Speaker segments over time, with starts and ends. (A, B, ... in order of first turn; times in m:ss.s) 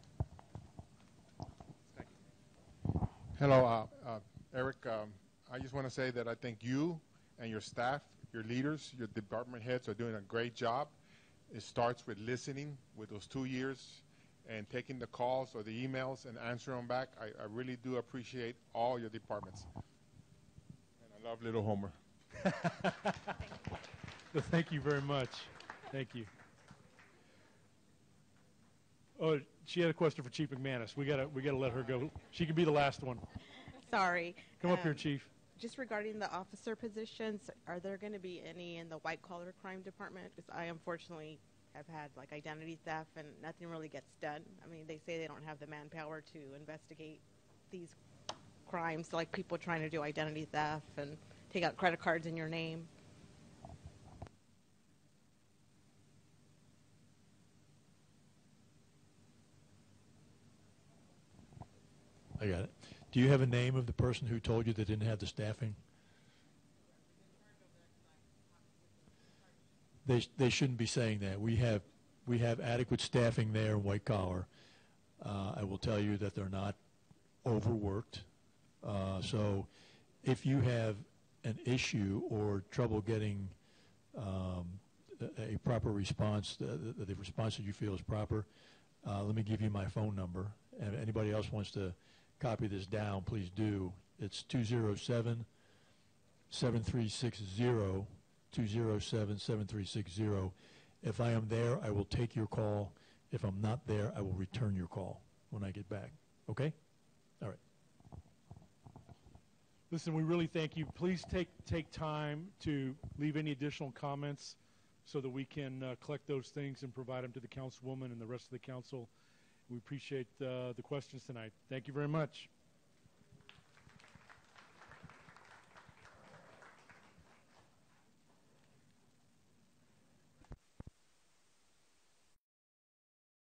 0:03.4-0:11.0 A
0:11.5-0:19.7 A
0:21.0-0:22.0 A
0:24.3-0:26.3 B
0:29.2-0:33.2 B
0:33.8-0:48.0 C
0:34.6-0:35.3 B
0:48.6-0:52.9 C
1:02.4-1:05.8 D
1:10.0-1:14.5 D
1:15.2-1:16.8 D
1:17.4-1:18.3 D
1:18.8-1:19.7 D
1:20.2-1:23.6 D
1:24.1-1:28.5 D
1:29.0-1:35.5 D
1:36.5-1:46.8 D
1:49.9-1:59.1 B
1:59.7-2:02.5 B